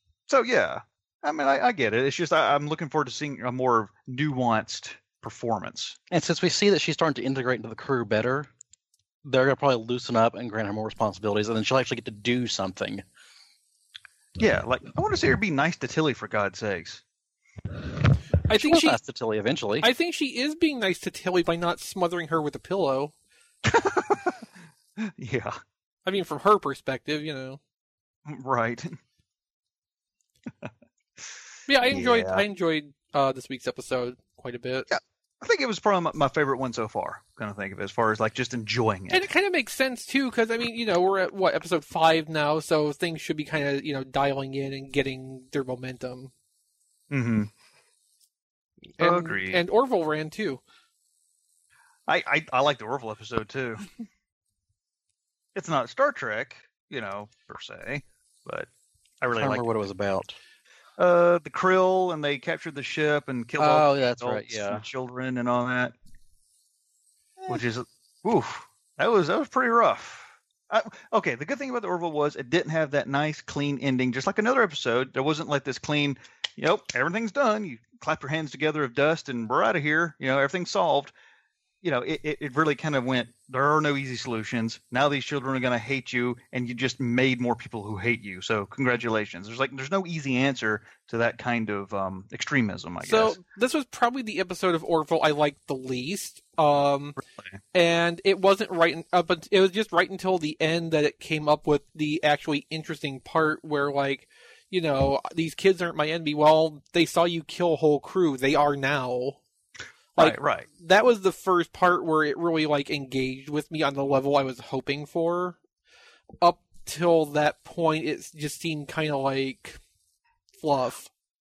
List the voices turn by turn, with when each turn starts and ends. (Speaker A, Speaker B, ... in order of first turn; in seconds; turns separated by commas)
Speaker A: 0.3-6.0, Speaker B: 6.1-8.5, Speaker B: 9.2-13.0, Speaker A: 14.4-17.0, Speaker C: 18.4-19.0, Speaker B: 18.5-19.9, Speaker C: 19.8-23.1, Speaker A: 23.6-24.4, Speaker A: 25.0-25.6, Speaker C: 26.1-27.6, Speaker A: 28.2-29.0, Speaker C: 31.7-34.9, Speaker A: 31.9-32.4, Speaker A: 34.9-39.2, Speaker C: 39.1-46.3, Speaker A: 47.1-47.5, Speaker C: 49.0-50.6, Speaker A: 49.0-49.6, Speaker A: 52.1-53.9, Speaker A: 55.5-58.7, Speaker A: 59.2-59.6, Speaker B: 59.4-60.4, Speaker A: 61.0-65.9, Speaker B: 63.6-64.9, Speaker A: 67.5-81.1, Speaker A: 81.8-93.4, Speaker C: 93.0-97.2, Speaker C: 97.7-109.4, Speaker C: 110.2-115.6, Speaker A: 110.2-110.7, Speaker C: 116.4-119.8, Speaker C: 120.6-121.1